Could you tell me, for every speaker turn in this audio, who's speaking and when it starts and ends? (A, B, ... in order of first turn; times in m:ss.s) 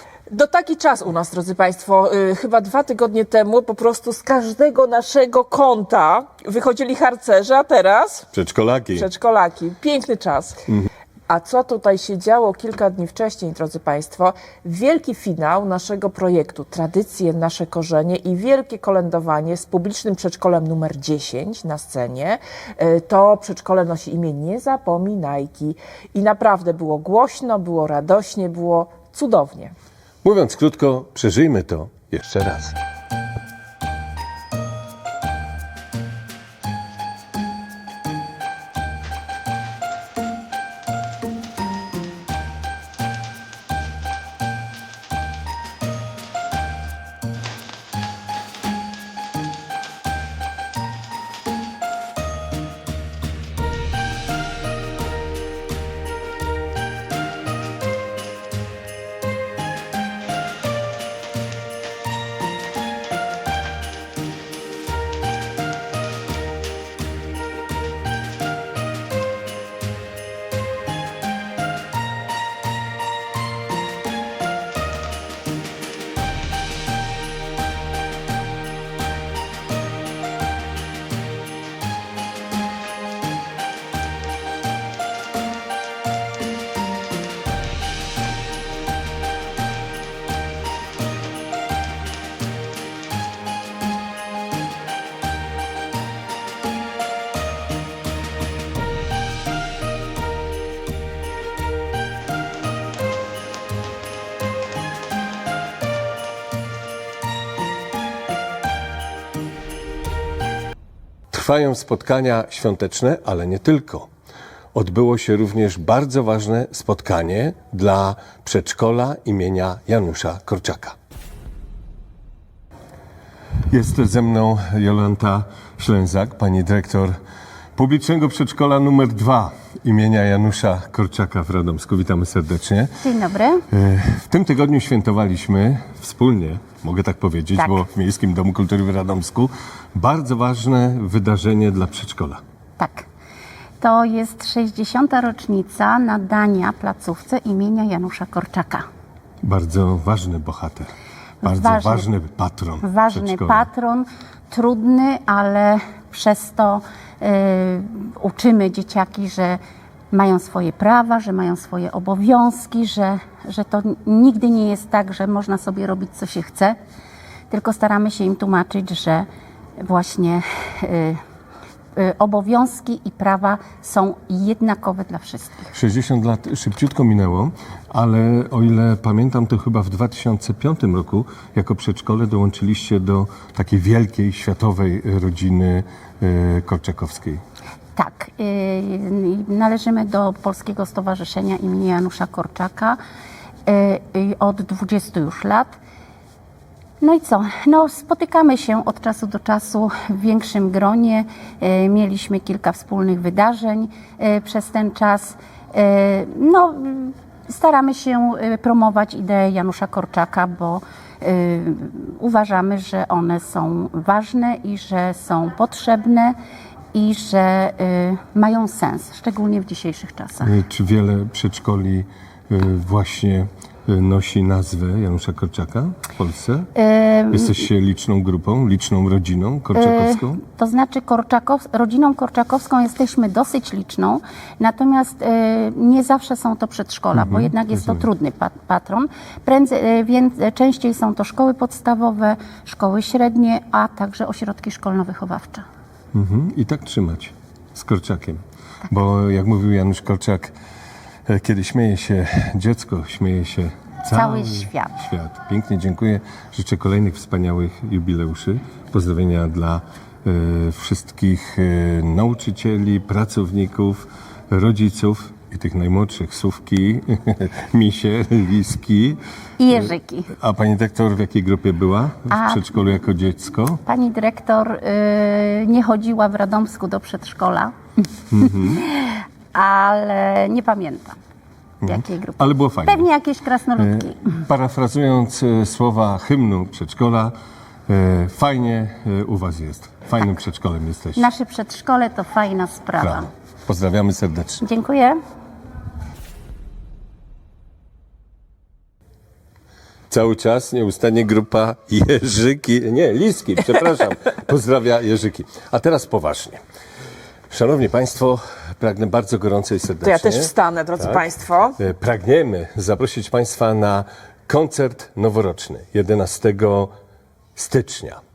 0:00.3-0:08.3 A
0:08.3-0:09.1 B
0:09.0-0:10.7 A
0:11.3-0:29.7 A
0:30.2-0:32.8 B
1:51.3-1:54.1 B
1:54.7-2:01.0 B
2:03.7-2:07.2 B
2:07.8-2:12.9 B
2:13.0-2:13.6 C
2:13.7-2:22.4 B
2:22.8-2:23.1 C
2:23.8-2:28.9 C
2:29.4-2:33.7 B
2:31.4-2:32.1 C
2:32.8-2:39.6 C
2:40.1-2:46.8 C
2:47.5-2:49.3 C
2:49.8-2:51.2 C
2:52.0-2:55.7 C
2:55.7-3:07.4 B
3:08.0-3:13.0 C
3:13.7-3:15.8 C
3:17.0-3:36.4 C
3:36.9-3:40.6 C
3:40.4-3:46.7 B
3:46.8-3:47.6 C
3:47.3-3:50.4 B
3:49.8-4:05.7 C
3:57.1-3:58.0 B
4:06.1-4:10.5 B
4:11.3-4:29.2 B
4:14.1-4:15.0 C
4:29.6-4:30.3 C
4:29.7-4:33.8 B
4:32.3-4:32.7 C
4:33.8-4:37.8 C
4:38.3-4:38.8 B
4:38.4-4:41.2 C
4:41.8-4:43.1 B
4:41.8-4:44.4 C
4:43.8-4:47.4 B
4:47.9-4:51.3 B
4:51.2-4:53.3 C
4:53.0-4:54.6 B
4:54.6-4:55.2 C
5:00.1-5:06.6 B
5:07.5-5:11.3 B
5:10.0-5:11.8 A
5:11.8-5:16.9 B
5:17.6-5:18.2 B